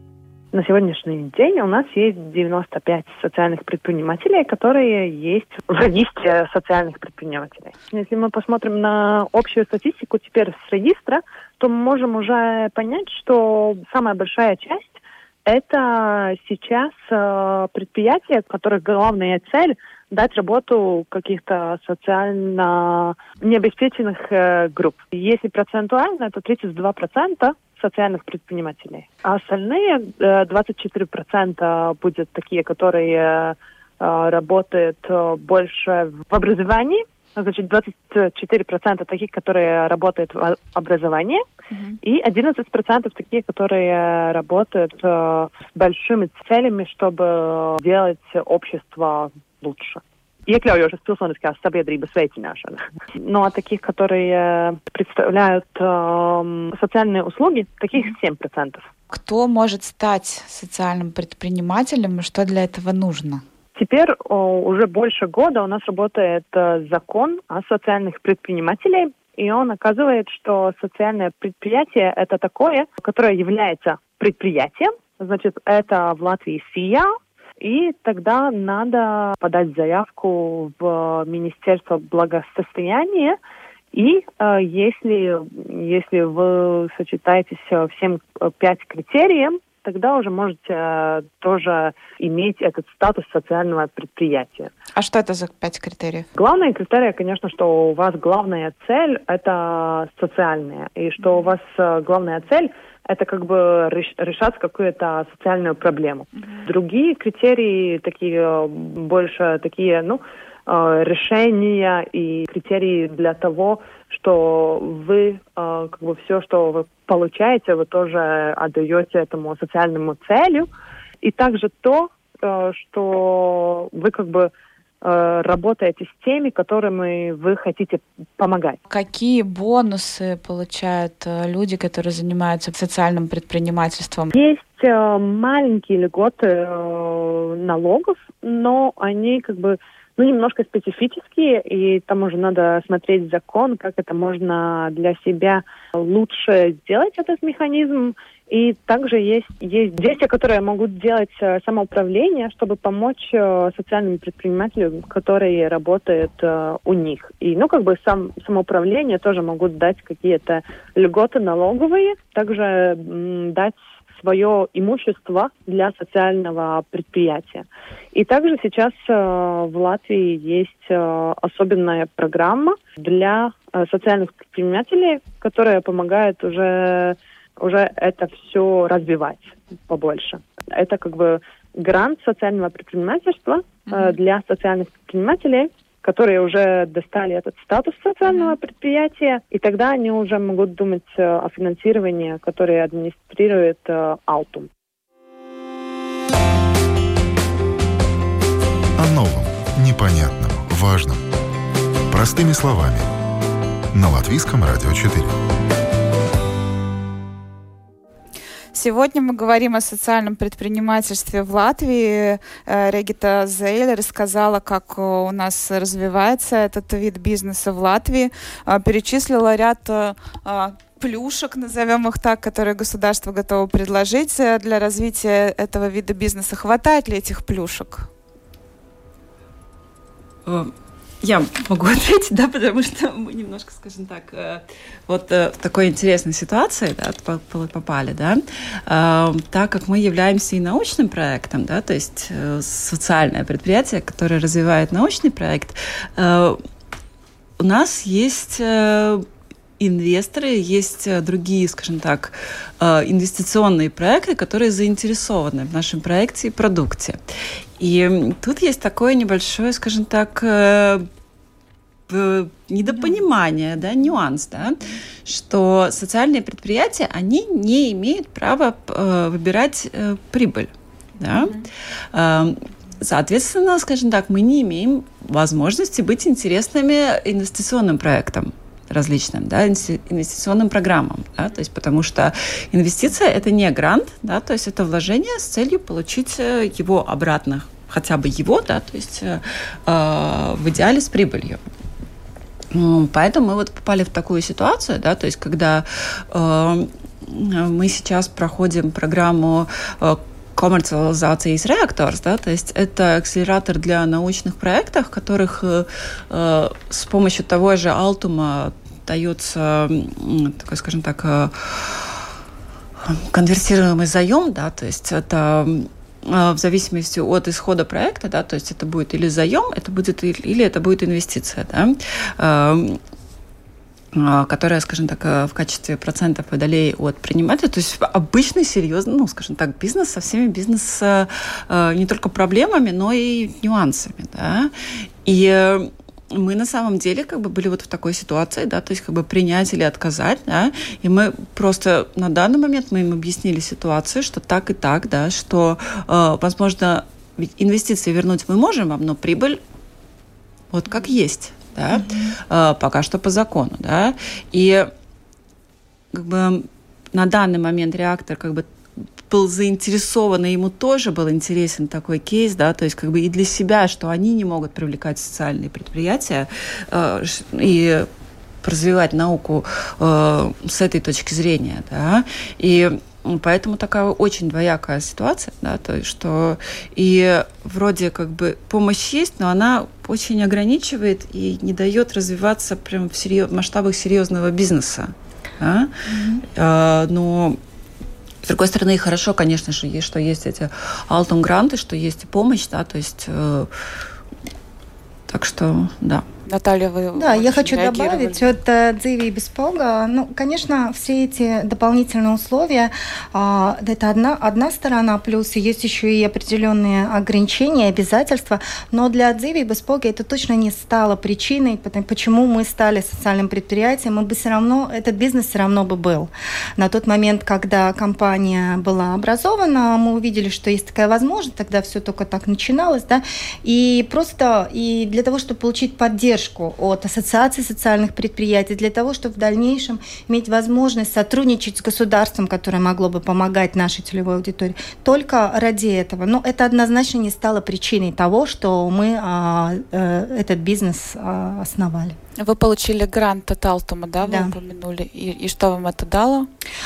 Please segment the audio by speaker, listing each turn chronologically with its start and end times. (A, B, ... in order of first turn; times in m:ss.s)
0:00.5-0:41.4 A
0:42.0-0:58.9 A
0:59.1-1:03.4 B
1:03.8-1:23.4 A
1:23.9-1:34.7 A
1:34.9-1:36.3 B
1:36.4-2:00.7 A
2:01.2-2:04.5 A
2:05.0-2:08.8 A
2:08.9-2:14.3 B
2:14.3-3:14.7 A
3:08.3-3:08.6 B
3:19.0-3:21.2 C
3:22.1-3:23.1 C
3:23.9-3:25.4 C
3:28.7-3:48.1 B
3:50.4-4:06.6 D
4:07.6-4:09.3 D
4:09.8-4:17.2 D
4:17.8-4:21.1 D
4:22.1-4:31.6 D
4:32.1-4:51.6 D
4:52.7-5:12.2 D
5:13.1-5:23.0 D
5:24.1-5:34.7 D
5:35.2-5:49.6 D
5:50.7-5:54.9 D
5:51.9-5:52.4 E
5:56.1-5:58.7 D
5:59.3-6:08.1 D
6:08.6-6:27.6 D
6:26.1-6:26.4 E
6:28.4-6:33.7 D
6:35.3-6:36.2 D
6:36.5-6:38.5 B
6:37.2-7:22.2 E
7:22.4-7:26.5 B
7:24.2-7:24.6 E